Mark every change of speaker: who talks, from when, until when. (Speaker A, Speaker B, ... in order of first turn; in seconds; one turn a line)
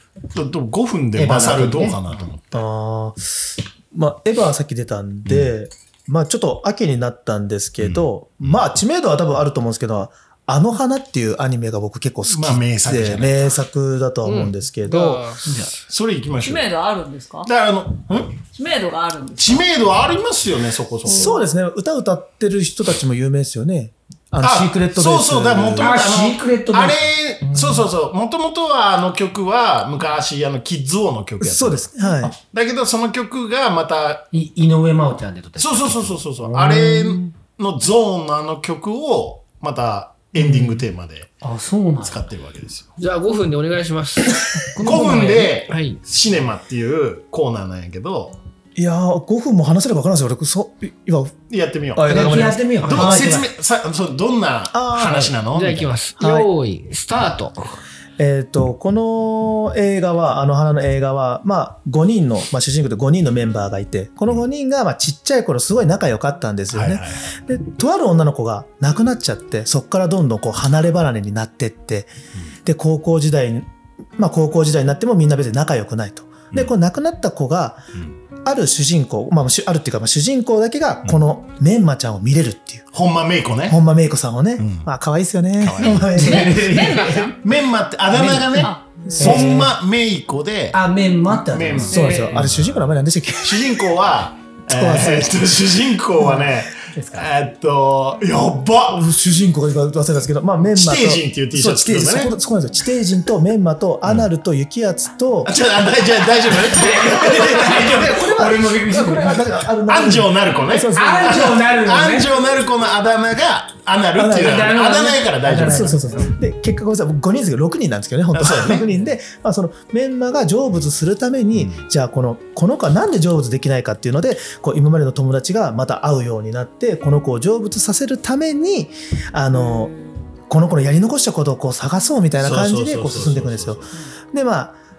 Speaker A: 0.3-2.6
Speaker B: 1.1-2.0
Speaker C: 2.5-15.6
Speaker A: 5.2-5.5
Speaker A: 7.8-8.6
Speaker A: 12.3-13.6
Speaker D: 14.2-15.6
Speaker A: 15.5-16.7
Speaker E: 16.4-17.5
Speaker A: 17.4-18.4
Speaker E: 18.5-19.6
Speaker A: 19.4-21.4
Speaker E: 21.1-21.5
Speaker C: 21.1-26.0
Speaker A: 24.4-34.3
Speaker B: 25.8-27.9
Speaker C: 31.4-32.4
Speaker B: 34.3-37.3
Speaker A: 35.6-41.4
Speaker B: 41.4-42.2
Speaker A: 42.0-42.9
Speaker D: 43.0-44.6
Speaker B: 44.6-45.5
Speaker A: 44.8-48.4
Speaker D: 45.7-46.0
Speaker C: 48.8-51.4
Speaker A: 51.5-56.0
Speaker C: 51.9-53.4
Speaker B: 52.0-53.5
Speaker C: 54.7-55.4
Speaker D: 55.5-57.8
Speaker C: 56.2-56.5
Speaker C: 58.2-72.1
Speaker A: 66.7-67.3
Speaker C: 72.6-77.8
Speaker C: 78.4-82.9
Speaker A: 82.9-83.8
Speaker C: 83.7-86.8
Speaker A: 84.6-84.9
Speaker A: 85.6-86.1
Speaker B: 85.8-87.3
Speaker E: 86.2-87.4
Speaker A: 87.4-92.9
Speaker B: 88.1-89.7
Speaker E: 88.6-89.4
Speaker C: 89.0-89.7
Speaker B: 90.7-92.3
Speaker E: 91.9-92.4
Speaker C: 91.9-93.9
Speaker A: 93.4-99.1
Speaker C: 94.7-95.6
Speaker C: 96.2-96.5
Speaker C: 98.9-105.5
Speaker A: 100.6-102.4
Speaker A: 105.5-108.6
Speaker B: 106.7-109.5
Speaker C: 107.2-111.6
Speaker A: 109.8-116.0
Speaker B: 110.9-112.3
Speaker C: 114.1-114.9
Speaker B: 114.3-116.3
Speaker C: 115.6-134.8
Speaker A: 118.3-118.9
Speaker A: 121.5-121.8
Speaker A: 132.4-133.9